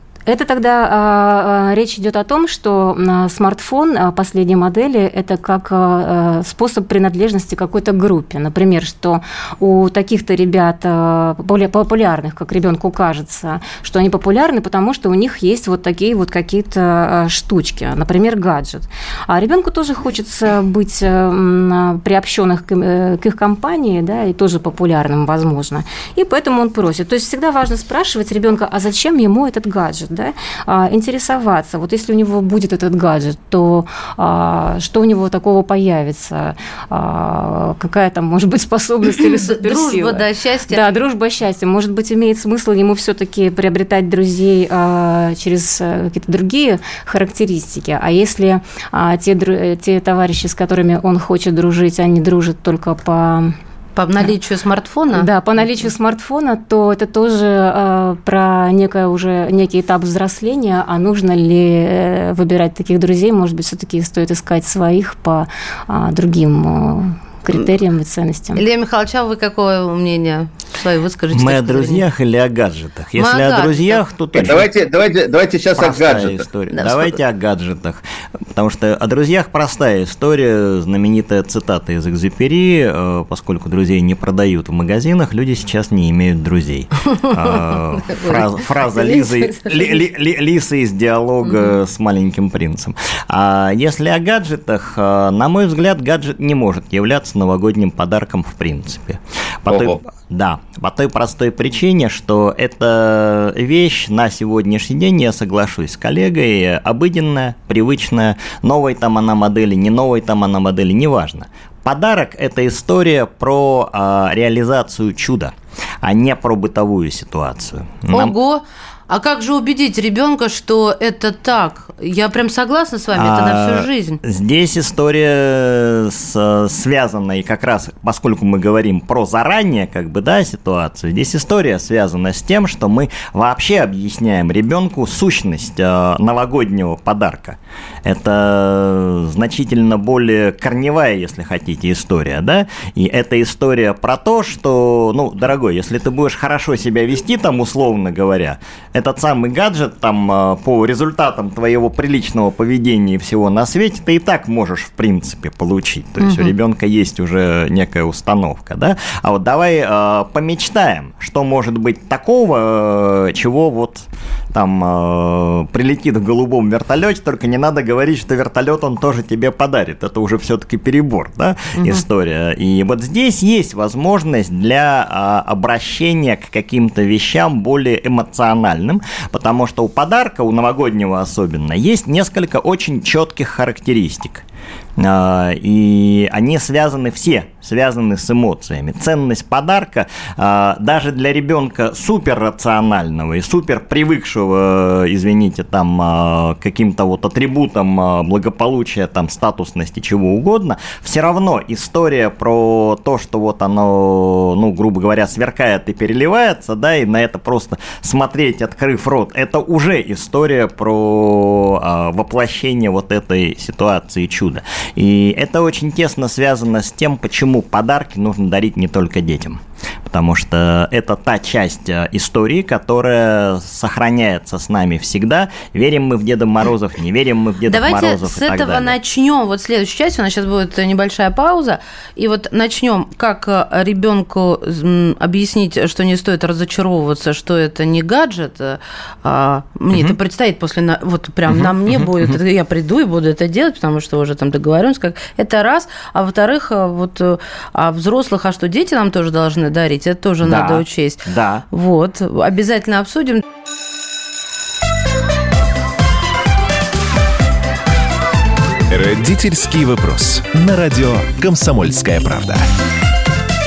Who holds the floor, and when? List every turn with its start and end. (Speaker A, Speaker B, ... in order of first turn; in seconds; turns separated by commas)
Speaker A: 0.2-53.5, Speaker B: 39.3-40.9, Speaker B: 54.0-55.3, Speaker A: 55.1-68.6, Speaker B: 68.5-72.0, Speaker C: 71.3-74.7, Speaker B: 73.2-74.0, Speaker D: 74.3-76.5, Speaker C: 75.7-78.0, Speaker B: 76.7-77.2, Speaker C: 78.5-118.3, Speaker B: 88.1-90.0, Speaker B: 91.4-91.7, Speaker D: 99.7-100.0, Speaker B: 118.1-124.2, Speaker C: 123.1-184.4, Speaker B: 156.2-156.5, Speaker B: 171.8-172.0, Speaker C: 185.0-228.9, Speaker B: 227.7-253.4, Speaker C: 241.5-242.4, Speaker C: 250.4-251.6, Speaker E: 258.9-262.7